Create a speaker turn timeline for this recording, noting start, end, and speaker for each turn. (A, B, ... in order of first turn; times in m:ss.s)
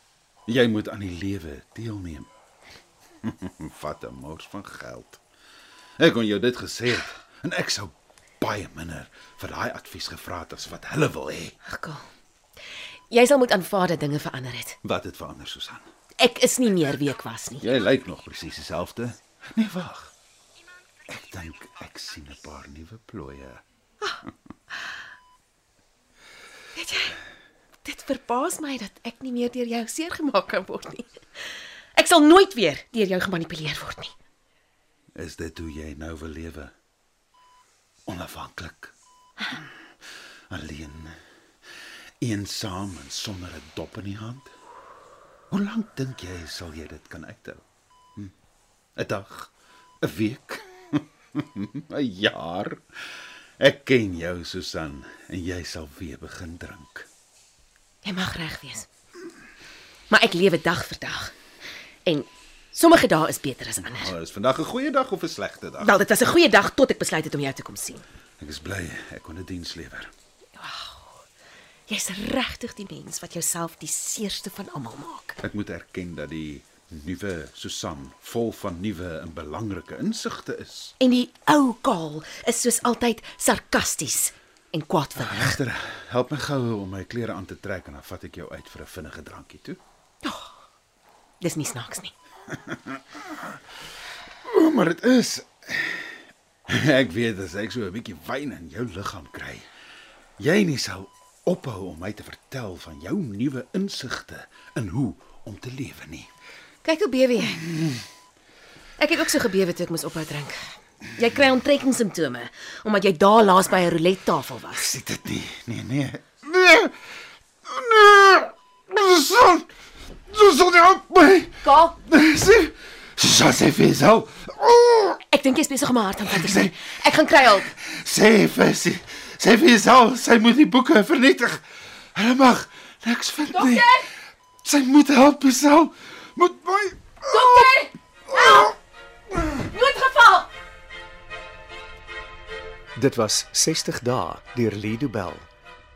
0:00.5-0:02.3 A
0:03.2-0:05.2 A
0:06.0-0:11.6 A
0:11.6-0:12.0 B
0:13.1-0:14.8 B
0:14.8-0:15.8 A
0:16.2-0:17.7 B
0:17.6-0:20.1 A
0:21.1-0:23.6 A
0:26.7-0:27.2 B
0:27.8-0:31.1 B
0:31.9-0:34.1 B
0:35.1-0:36.7 A
0:38.1-0:38.9 A
0:40.5-0:41.2 A
0:42.2-0:44.5 A
0:45.5-0:47.6 A
0:49.0-0:49.5 A
0:50.0-0:52.8 A
0:53.6-0:57.1 A
0:58.0-0:58.9 B
1:00.1-1:01.3 B
1:02.0-1:04.1 B
1:03.8-1:06.0 A
1:05.8-1:08.0 B
1:08.4-1:10.1 A
1:10.6-1:11.2 B
1:11.9-1:15.4 B
1:15.4-1:20.9 A
1:21.0-1:25.6 B
1:25.2-1:29.8 A
1:30.2-1:30.5 B
1:31.4-1:32.1 B
1:32.6-1:33.0 A
1:34.4-1:36.1 A
1:36.7-1:39.6 A
1:40.4-1:46.3 A
1:46.8-1:47.6 B
1:47.6-1:48.0 A
1:49.0-1:50.6 B
1:51.2-1:54.8 B
1:54.7-1:56.9 A
1:57.6-1:59.7 A
2:00.3-2:05.2 A
2:01.6-2:02.0 B
2:05.3-2:07.7 B
2:06.3-2:06.7 A
2:07.7-2:11.6 A
2:12.1-2:14.0 A
2:13.6-2:13.8 B
2:14.6-2:17.7 A
2:17.3-2:18.7 B
2:18.4-2:18.7 A
2:19.5-2:20.5 B
2:23.0-2:25.5 C